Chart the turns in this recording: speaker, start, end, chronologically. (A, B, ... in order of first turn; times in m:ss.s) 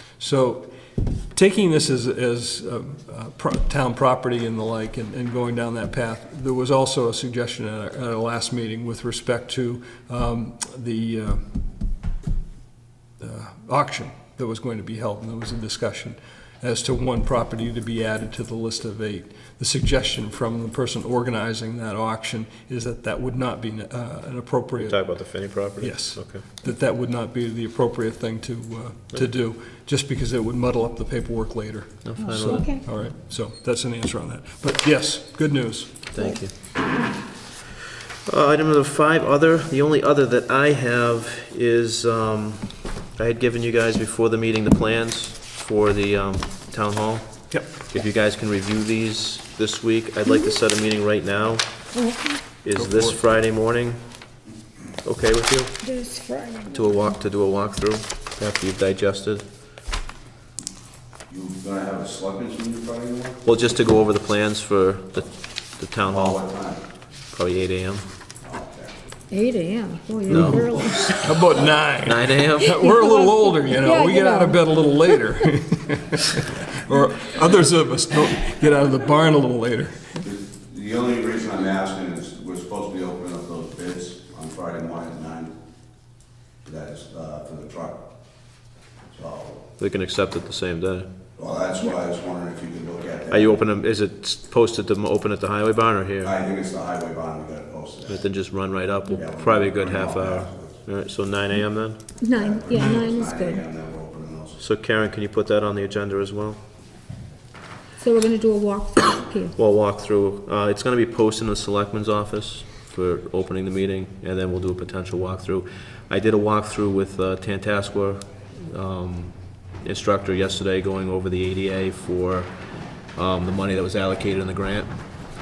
0:00.2-0:00.7 A
0:01.3-0:11.5 A
0:13.2-0:25.0 A
0:24.8-0:26.4 B
0:25.8-0:36.0 A
0:32.0-0:32.8 B
0:32.3-0:32.8 C
0:36.1-0:36.5 B
0:38.3-0:51.7 B
0:47.5-0:47.8 A
0:50.3-0:50.5 C
0:51.9-0:52.4 C
0:52.6-0:54.0 B
0:52.8-0:53.2 A
0:55.0-0:55.8 B
0:55.8-0:57.2 C
0:56.7-0:59.4 B
1:01.3-1:03.4 D
1:03.4-1:06.4 B
1:06.0-1:06.8 D
1:07.3-1:08.1 B
1:08.4-1:08.9 D
1:09.3-1:11.4 C
1:10.3-1:10.9 B
1:10.3-1:20.2 A
1:12.0-1:12.8 B
1:12.6-1:15.3 C
1:20.2-1:25.5 D
1:26.6-1:28.0 D
1:29.1-1:29.6 D
1:29.8-1:31.1 B
1:31.4-1:33.6 D
1:33.3-1:36.3 B
1:36.2-1:38.2 D
1:38.1-1:42.0 B
1:39.1-1:40.8 D
1:42.2-1:43.6 C
1:42.4-1:44.6 D
1:44.6-1:46.6 B
1:48.0-1:49.6 C
1:49.6-2:02.5 B
2:03.2-2:04.9 B